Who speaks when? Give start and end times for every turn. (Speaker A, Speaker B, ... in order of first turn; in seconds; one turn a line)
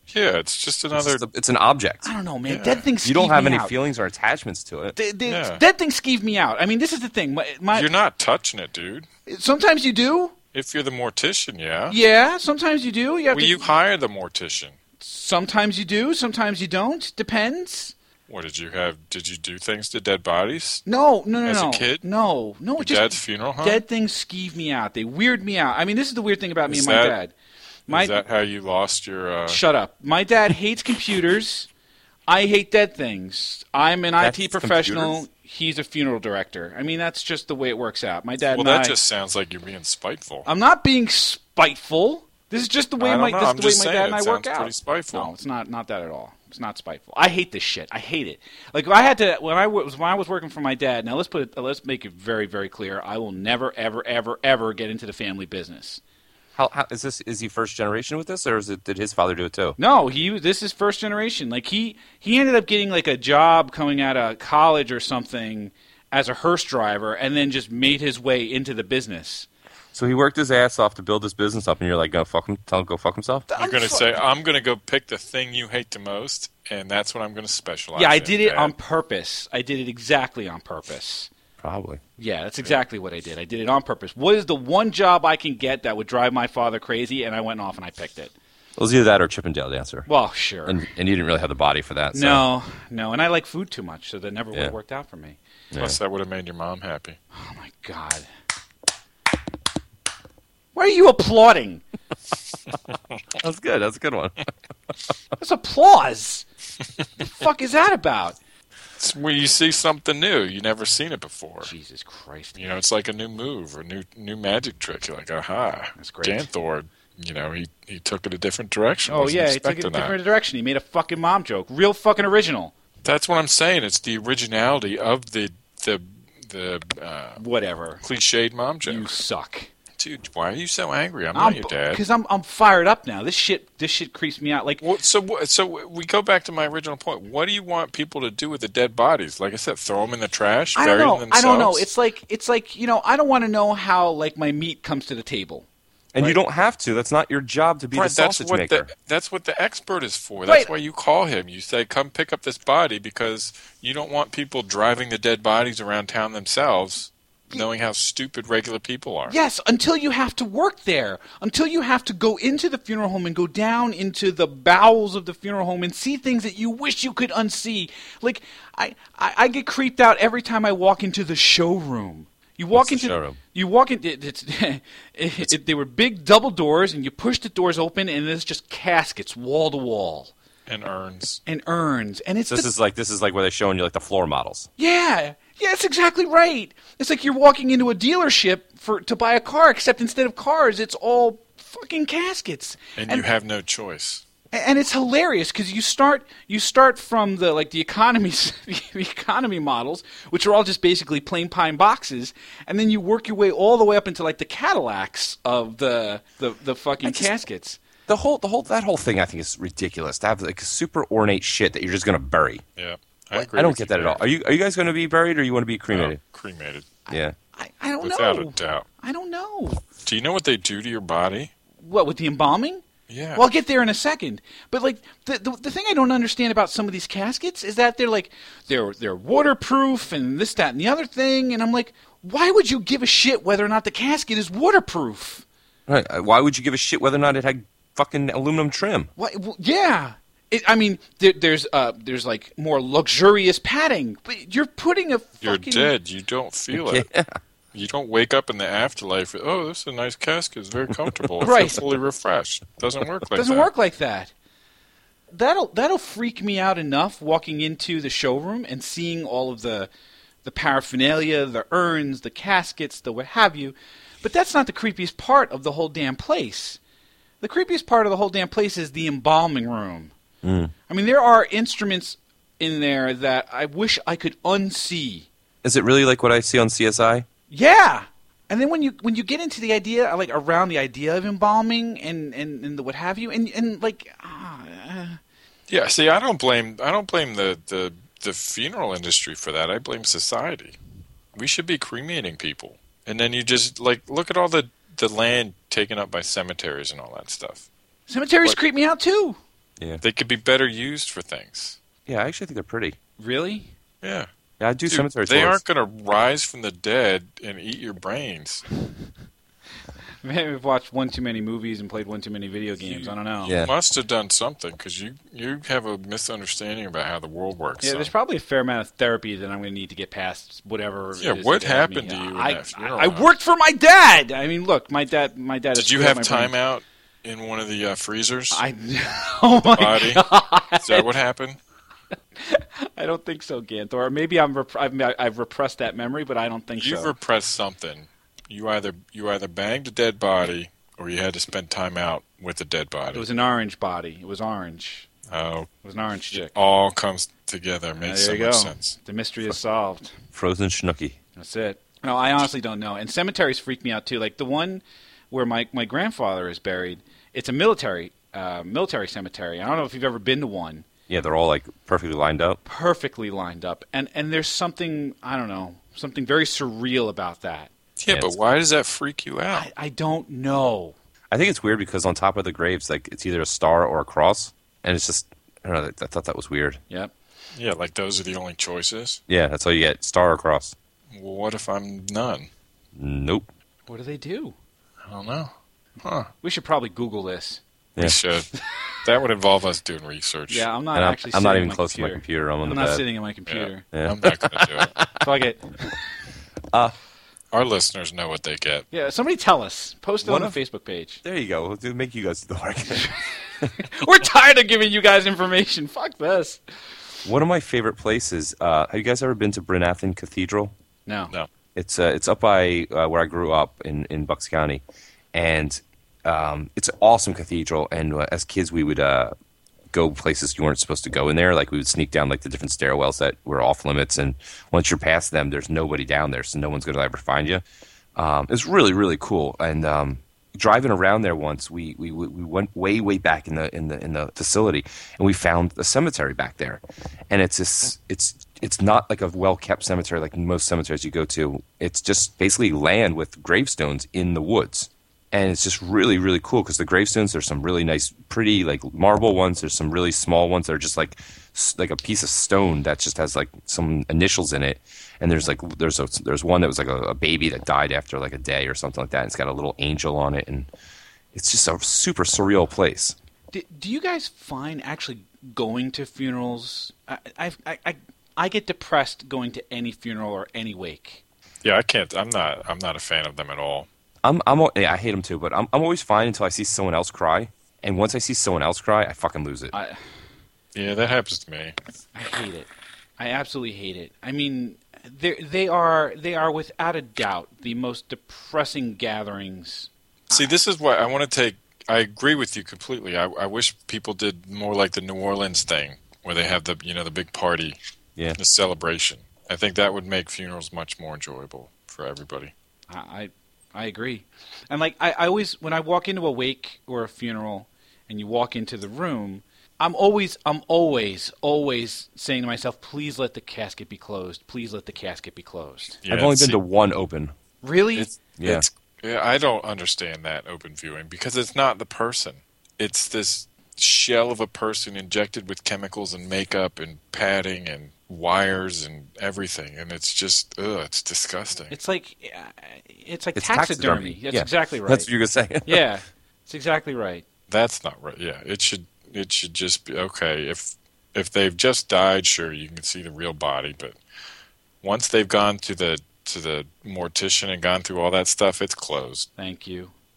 Speaker A: 0.1-1.2
Speaker B: 0.9-2.1
Speaker C: 2.0-3.8
Speaker A: 2.5-2.9
Speaker B: 3.0-5.0
Speaker C: 5.0-7.9
Speaker A: 5.2-5.6
Speaker A: 7.7-9.1
Speaker C: 9.3-10.3
Speaker A: 10.5-12.0
Speaker C: 11.9-13.7
Speaker A: 13.3-14.8
Speaker C: 15.0-17.9
Speaker A: 18.3-20.9
Speaker C: 20.9-27.3
Speaker A: 21.4-22.1
Speaker A: 22.8-23.8
Speaker A: 26.7-27.2
Speaker A: 27.9-29.6
Speaker C: 27.9-28.2
Speaker C: 29.5-31.7
Speaker C: 32.3-39.0
Speaker B: 34.2-35.2
Speaker A: 38.5-40.5
Speaker C: 40.4-56.0
Speaker A: 43.0-45.3
Speaker B: 56.6-59.8
Speaker C: 59.8-69.5
Speaker B: 69.9-73.5
Speaker C: 73.5-74.2
Speaker A: 73.6-78.7
Speaker C: 77.9-81.3
Speaker B: 81.6-82.0
Speaker C: 82.2-88.3
Speaker B: 88.8-90.1
Speaker C: 90.1-90.9
Speaker B: 90.7-92.4
Speaker C: 92.1-95.4
Speaker B: 95.7-96.0
Speaker A: 95.8-97.2
Speaker C: 97.3-98.3
Speaker C: 100.8-101.8
Speaker B: 103.3-104.4
Speaker C: 105.4-106.4
Speaker C: 107.2-108.4
Speaker A: 109.0-111.7
Speaker C: 111.6-112.7
Speaker A: 112.6-120.2
Speaker C: 116.0-116.5
Speaker C: 119.1-122.7
Speaker A: 123.0-127.4
Speaker C: 127.4-128.0
Speaker A: 128.0-129.2
Speaker C: 128.8-129.7
Speaker A: 130.0-132.0
Speaker C: 131.3-134.8
Speaker A: 134.8-141.9
Speaker C: 140.8-145.7
Speaker B: 146.1-148.9
Speaker A: 147.9-159.3
Speaker C: 150.4-150.7
Speaker C: 159.3-180.3
Speaker B: 172.8-173.4
Speaker A: 180.7-181.4
Speaker C: 181.4-182.7
Speaker B: 182.5-184.7
Speaker C: 184.8-193.3
Speaker A: 193.0-194.2
Speaker C: 194.5-207.8
Speaker B: 207.0-207.3
Speaker B: 208.1-212.6
Speaker A: 212.8-214.2
Speaker B: 213.3-216.2
Speaker A: 215.9-216.9
Speaker B: 217.1-217.3
Speaker C: 217.1-219.8
Speaker A: 218.0-218.9
Speaker A: 220.0-221.5
Speaker C: 221.8-222.8
Speaker A: 223.1-223.4
Speaker C: 223.3-235.4
Speaker B: 235.9-239.1
Speaker C: 239.2-245.9
Speaker A: 245.4-247.1
Speaker B: 246.7-247.3
Speaker A: 247.7-253.7
Speaker C: 251.4-251.8
Speaker C: 253.3-254.3
Speaker C: 255.3-259.9
Speaker C: 260.4-266.8
Speaker C: 267.4-270.1
Speaker B: 270.4-270.7
Speaker C: 270.9-275.3
Speaker B: 275.6-277.2
Speaker C: 277.5-285.2
Speaker A: 285.7-290.8
Speaker A: 291.4-297.7
Speaker C: 298.1-299.4
Speaker A: 300.0-301.8
Speaker B: 302.1-303.0
Speaker C: 303.2-303.7
Speaker A: 304.0-304.3
Speaker B: 304.6-305.6
Speaker A: 304.9-308.6
Speaker C: 310.2-313.5
Speaker A: 312.8-318.1
Speaker B: 313.5-313.7
Speaker C: 317.8-326.5
Speaker A: 321.2-323.3
Speaker A: 325.8-328.6
Speaker C: 328.5-331.1
Speaker A: 329.7-330.2
Speaker A: 330.8-331.6
Speaker C: 332.4-337.1
Speaker A: 336.8-343.2
Speaker C: 343.1-345.1
Speaker A: 345.3-345.7
Speaker C: 345.8-346.6
Speaker A: 346.3-349.0
Speaker C: 348.0-350.1
Speaker B: 350.3-351.2
Speaker C: 351.4-360.9
Speaker B: 361.1-362.6
Speaker C: 362.6-367.7
Speaker A: 368.0-369.7
Speaker B: 368.1-368.4
Speaker C: 369.5-370.9
Speaker B: 371.3-376.8
Speaker A: 377.5-379.2
Speaker B: 379.3-380.8
Speaker A: 381.1-382.5
Speaker B: 383.0-383.5
Speaker C: 383.9-384.5
Speaker A: 385.1-385.5
Speaker A: 386.0-386.3
Speaker C: 386.4-387.6
Speaker A: 388.0-388.5
Speaker A: 389.0-390.7
Speaker C: 390.5-393.9
Speaker B: 390.9-393.0
Speaker A: 393.5-394.9
Speaker B: 393.9-395.2
Speaker C: 395.2-396.0
Speaker A: 397.5-398.9
Speaker C: 398.9-401.2
Speaker B: 400.2-400.6
Speaker B: 401.2-403.7
Speaker C: 403.0-406.6
Speaker B: 407.2-410.7
Speaker C: 411.1-411.3
Speaker B: 411.8-414.8
Speaker B: 415.3-419.3
Speaker B: 419.9-427.6
Speaker B: 428.1-460.7
Speaker B: 461.3-463.1
Speaker C: 463.5-471.2
Speaker A: 471.6-473.9
Speaker B: 474.2-479.7
Speaker C: 479.7-480.0
Speaker A: 480.7-481.8
Speaker C: 482.1-490.5
Speaker A: 490.3-497.8
Speaker A: 498.4-502.5
Speaker C: 502.9-516.0
Speaker A: 516.0-516.6
Speaker B: 516.1-517.3
Speaker C: 517.6-518.1
Speaker A: 518.0-531.7
Speaker B: 518.4-518.6
Speaker C: 531.7-535.1
Speaker B: 533.4-535.8
Speaker C: 535.6-537.2
Speaker A: 537.5-544.0
Speaker A: 544.8-549.3
Speaker C: 549.4-549.9